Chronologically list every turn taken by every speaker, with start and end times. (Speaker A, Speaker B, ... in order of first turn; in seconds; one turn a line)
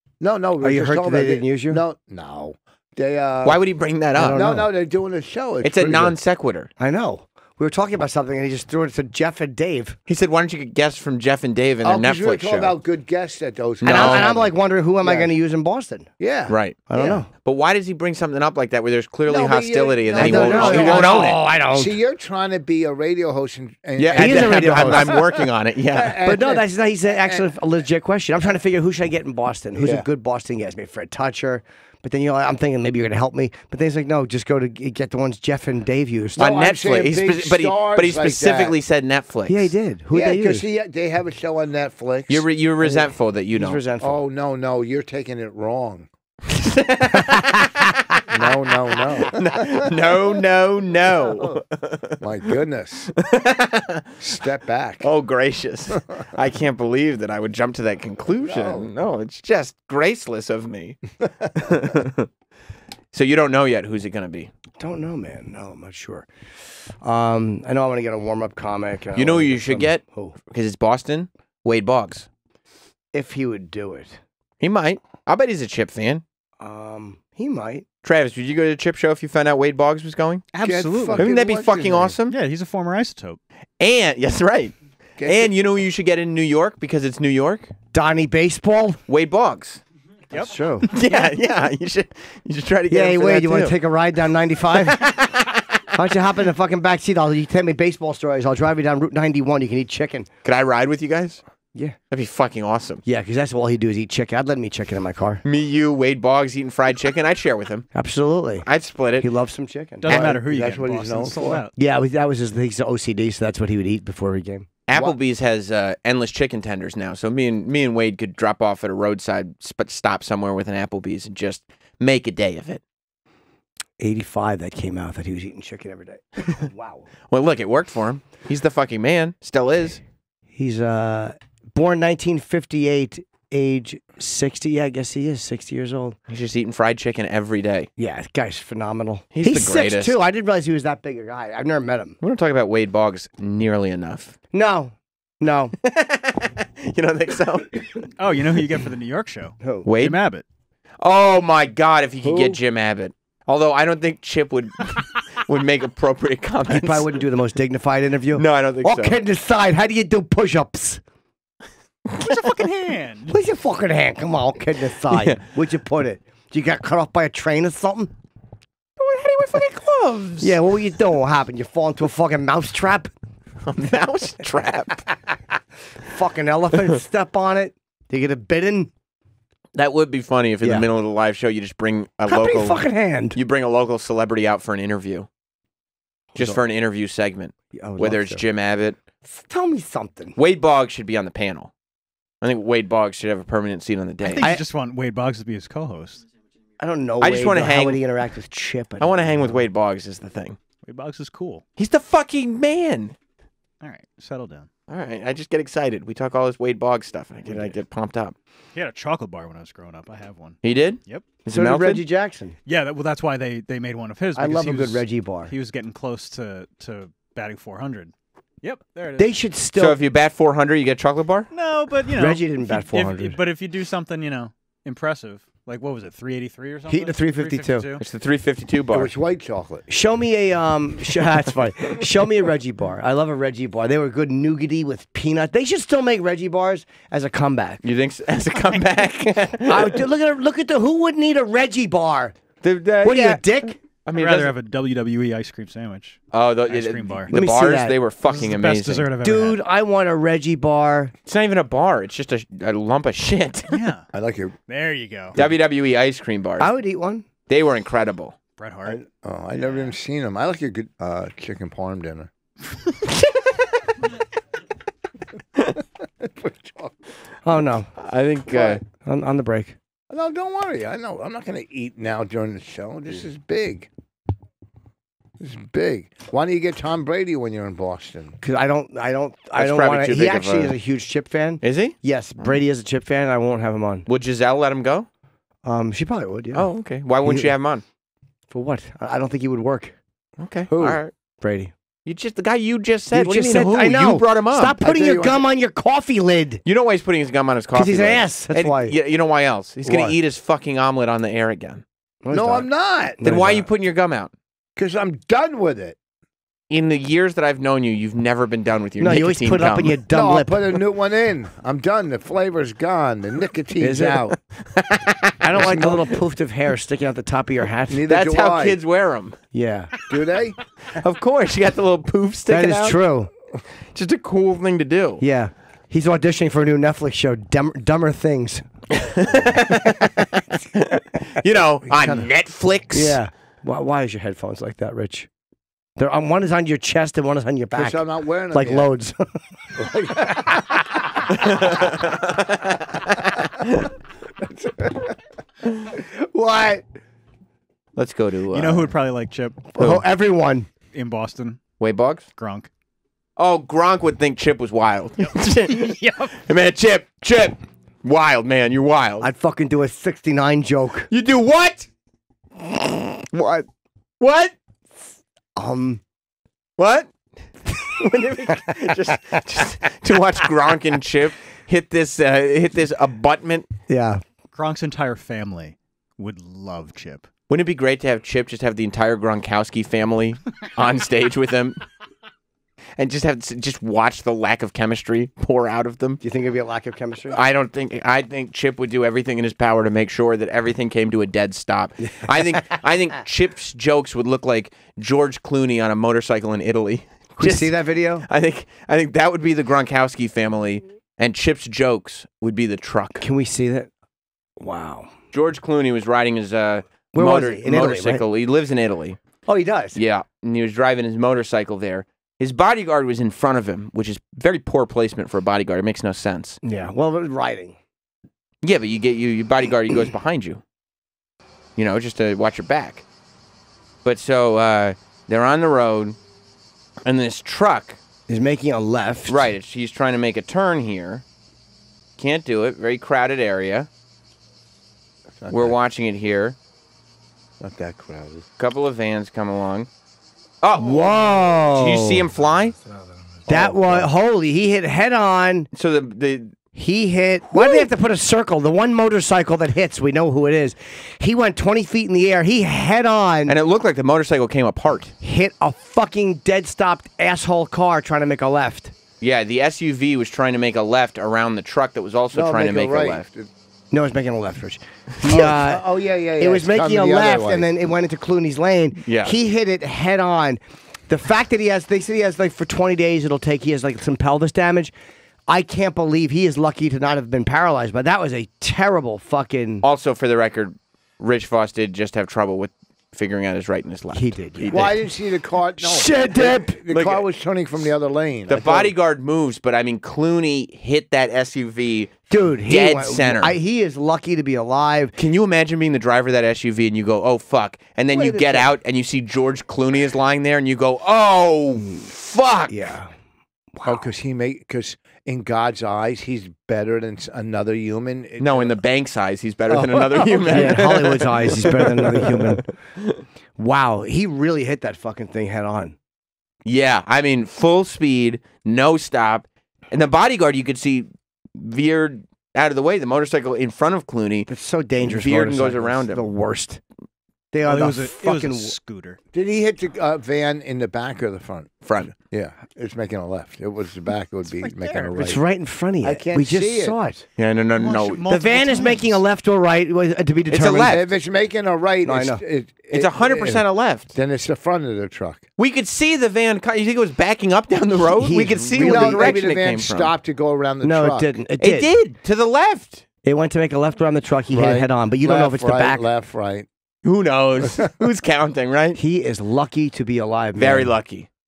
Speaker A: 0.2-3.6
Speaker B: 0.6-1.8
Speaker C: 3.4-4.5
Speaker B: 4.2-4.7
Speaker A: 4.3-6.2
Speaker C: 5.6-6.7
Speaker B: 6.8-10.0
Speaker C: 10.1-12.7
Speaker A: 11.8-15.3
Speaker C: 13.8-14.3
Speaker B: 13.8-16.1
Speaker A: 16.2-17.2
Speaker C: 16.5-21.4
Speaker B: 16.9-17.3
Speaker A: 19.3-25.3
Speaker B: 20.2-21.9
Speaker C: 24.0-26.2
Speaker B: 24.1-25.1
Speaker A: 25.9-27.5
Speaker B: 26.2-36.5
Speaker A: 29.8-30.1
Speaker A: 36.4-38.8
Speaker C: 36.4-39.7
Speaker B: 39.5-40.6
Speaker A: 40.1-42.5
Speaker C: 42.3-43.8
Speaker B: 43.6-44.2
Speaker A: 44.0-46.1
Speaker C: 46.5-48.3
Speaker A: 48.3-50.1
Speaker C: 49.2-52.2
Speaker A: 51.4-51.6
Speaker A: 52.2-53.1
Speaker C: 53.1-54.1
Speaker A: 54.2-55.1
Speaker C: 55.0-61.0
Speaker A: 58.4-58.9
Speaker C: 61.5-62.3
Speaker C: 63.1-64.5
Speaker B: 64.8-66.3
Speaker B: 66.9-70.3
Speaker C: 69.1-72.3
Speaker B: 73.1-74.2
Speaker C: 74.6-76.2
Speaker B: 76.6-77.8
Speaker C: 78.0-80.4
Speaker D: 80.5-81.3
Speaker A: 80.6-82.2
Speaker C: 81.2-82.4
Speaker D: 82.3-83.4
Speaker C: 83.8-87.7
Speaker A: 85.2-85.5
Speaker B: 87.9-89.0
Speaker C: 89.1-89.8
Speaker B: 90.3-90.9
Speaker C: 90.9-93.8
Speaker B: 92.9-95.1
Speaker C: 94.8-95.6
Speaker B: 95.9-100.3
Speaker C: 100.4-101.4
Speaker C: 102.1-103.0
Speaker B: 103.0-105.4
Speaker C: 105.4-107.9
Speaker B: 107.9-108.7
Speaker C: 108.6-109.3
Speaker B: 109.2-110.2
Speaker D: 110.0-111.7
Speaker A: 110.1-111.6
Speaker B: 111.8-114.7
Speaker C: 114.9-122.8
Speaker B: 124.0-127.1
Speaker C: 127.3-130.0
Speaker B: 130.6-136.2
Speaker C: 136.3-137.9
Speaker B: 138.0-142.2
Speaker C: 139.3-140.2
Speaker C: 142.2-144.4
Speaker B: 144.5-145.8
Speaker C: 145.8-147.8
Speaker D: 148.2-150.4
Speaker C: 149.9-150.2
Speaker C: 151.0-157.1
Speaker A: 152.2-152.6
Speaker B: 156.7-161.0
Speaker C: 158.3-159.2
Speaker D: 162.2-163.3
Speaker B: 163.3-168.1
Speaker C: 169.0-170.5
Speaker B: 170.4-173.1
Speaker C: 173.6-175.1
Speaker B: 176.1-178.9
Speaker C: 179.8-182.8
Speaker B: 182.2-183.4
Speaker C: 183.3-185.3
Speaker C: 186.4-189.0
Speaker B: 187.7-188.4
Speaker B: 189.2-190.3
Speaker C: 190.4-191.7
Speaker C: 192.4-194.5
Speaker D: 194.2-196.2
Speaker B: 196.8-199.6
Speaker C: 197.2-198.0
Speaker C: 199.0-200.6
Speaker D: 200.8-201.6
Speaker C: 201.8-203.1
Speaker D: 203.8-204.7
Speaker C: 204.9-208.3
Speaker D: 207.5-207.8
Speaker D: 208.8-211.3
Speaker C: 210.6-212.0
Speaker B: 211.5-212.6
Speaker D: 212.7-219.4
Speaker B: 214.4-215.5
Speaker B: 219.2-220.0
Speaker C: 219.8-221.5
Speaker D: 221.5-228.0
Speaker B: 222.1-223.4
Speaker B: 226.9-227.9
Speaker C: 228.0-229.1
Speaker A: 228.9-229.9
Speaker B: 229.9-237.8
Speaker C: 237.8-240.0
Speaker B: 239.7-242.4
Speaker C: 242.6-244.5
Speaker B: 243.0-243.8
Speaker D: 244.1-247.3
Speaker C: 246.3-249.1
Speaker B: 247.3-247.9
Speaker D: 248.2-249.6
Speaker B: 249.2-251.1
Speaker C: 251.2-253.8
Speaker D: 253.7-254.1
Speaker A: 254.1-254.6
Speaker D: 254.7-255.4
Speaker C: 255.4-256.7
Speaker B: 256.6-257.2
Speaker C: 257.5-258.4
Speaker D: 258.6-259.0
Speaker A: 258.9-262.3
Speaker C: 263.1-263.6
Speaker A: 266.2-267.0
Speaker B: 267.4-267.9
Speaker C: 268.0-268.8
Speaker A: 268.5-268.8
Speaker B: 269.0-269.8
Speaker A: 270.1-273.9
Speaker A: 275.4-278.4
Speaker B: 278.4-284.1
Speaker C: 279.6-280.7
Speaker C: 281.6-282.6
Speaker C: 284.1-285.1
Speaker B: 285.6-286.7
Speaker C: 286.5-287.8
Speaker B: 287.2-287.5
Speaker B: 288.5-290.0
Speaker C: 290.4-291.1
Speaker B: 291.4-291.7
Speaker C: 292.0-294.8
Speaker B: 293.1-296.6
Speaker A: 294.8-295.5
Speaker C: 296.6-301.8
Speaker B: 297.8-298.9
Speaker A: 299.9-300.1
Speaker B: 302.2-303.7
Speaker A: 302.3-303.2
Speaker C: 303.2-304.3
Speaker A: 304.8-306.0
Speaker C: 306.7-310.0
Speaker B: 309.0-310.8
Speaker A: 310.1-314.4
Speaker B: 313.8-314.3
Speaker C: 314.7-315.4
Speaker B: 315.4-318.0
Speaker A: 315.6-316.1
Speaker A: 317.9-318.8
Speaker C: 318.1-319.4
Speaker B: 319.5-319.9
Speaker A: 320.1-320.6
Speaker C: 320.9-323.0
Speaker B: 322.5-323.3
Speaker C: 323.9-325.2
Speaker B: 325.2-328.7
Speaker C: 328.9-333.2
Speaker A: 331.9-332.3
Speaker B: 332.9-335.3
Speaker B: 336.0-339.4
Speaker A: 337.7-338.9
Speaker A: 339.8-341.6
Speaker C: 341.4-343.2
Speaker A: 344.4-345.1
Speaker B: 346.3-346.8
Speaker C: 348.0-348.9
Speaker D: 348.5-350.0
Speaker B: 349.7-350.7
Speaker D: 350.9-351.6
Speaker C: 351.8-352.3
Speaker D: 352.4-352.7
Speaker C: 353.4-359.2
Speaker D: 355.7-356.3
Speaker B: 359.2-361.1
Speaker C: 361.1-361.9
Speaker C: 363.0-363.6
Speaker C: 364.2-364.5
Speaker B: 365.6-366.0
Speaker C: 366.8-367.1
Speaker C: 367.7-373.7
Speaker B: 373.9-374.2
Speaker D: 374.5-377.3
Speaker C: 377.5-381.8
Speaker C: 383.0-386.2
Speaker B: 386.2-387.4
Speaker C: 387.3-403.2
Speaker B: 397.4-398.3
Speaker B: 403.2-403.9
Speaker B: 404.6-405.1
Speaker C: 405.3-409.2
Speaker B: 407.1-408.2
Speaker B: 409.5-410.0
Speaker C: 409.9-416.6
Speaker B: 416.6-417.8
Speaker C: 418.6-420.6
Speaker C: 421.8-423.0
Speaker C: 424.0-426.2
Speaker C: 427.1-428.0
Speaker B: 428.3-429.4
Speaker C: 429.3-431.2
Speaker C: 432.2-433.9
Speaker A: 435.4-435.8
Speaker C: 435.5-436.6
Speaker A: 437.6-438.5
Speaker C: 438.6-439.9
Speaker C: 440.6-442.8
Speaker B: 440.8-442.2
Speaker B: 443.5-445.7
Speaker C: 443.5-444.0
Speaker C: 445.7-446.5
Speaker B: 446.8-453.5
Speaker C: 453.5-455.1
Speaker B: 455.2-458.9
Speaker C: 459.2-463.2
Speaker A: 462.3-463.5
Speaker B: 463.9-465.9
Speaker A: 465.2-467.7
Speaker B: 466.4-474.9
Speaker C: 469.0-469.4
Speaker B: 475.5-479.9
Speaker C: 479.8-485.0
Speaker B: 484.1-484.8
Speaker A: 484.7-488.9
Speaker B: 485.8-486.8
Speaker C: 486.9-487.2
Speaker C: 488.5-492.1
Speaker B: 492.3-495.1
Speaker C: 492.7-493.5
Speaker C: 495.2-502.9
Speaker B: 498.1-498.6
Speaker B: 502.7-503.1
Speaker B: 503.8-504.0
Speaker A: 503.8-508.8
Speaker C: 508.4-513.2
Speaker A: 509.7-510.8
Speaker B: 510.5-512.6
Speaker B: 513.6-516.0
Speaker C: 516.6-524.5
Speaker B: 524.5-526.8
Speaker C: 525.0-526.2
Speaker B: 527.5-528.8
Speaker D: 527.6-529.2
Speaker A: 529.3-535.4
Speaker C: 531.9-532.1
Speaker D: 534.5-535.1
Speaker B: 535.1-537.2
Speaker A: 536.0-537.0
Speaker C: 537.4-538.3
Speaker D: 537.8-539.2
Speaker B: 538.3-541.0
Speaker C: 540.5-541.0
Speaker A: 540.8-545.4
Speaker B: 542.0-542.4
Speaker C: 542.9-544.1
Speaker C: 545.6-550.1
Speaker B: 548.2-549.4
Speaker A: 548.8-551.3
Speaker B: 550.8-551.9
Speaker C: 551.6-553.0
Speaker B: 553.2-556.0
Speaker A: 554.5-556.7
Speaker C: 557.0-559.0
Speaker B: 559.0-560.9
Speaker C: 560.6-561.3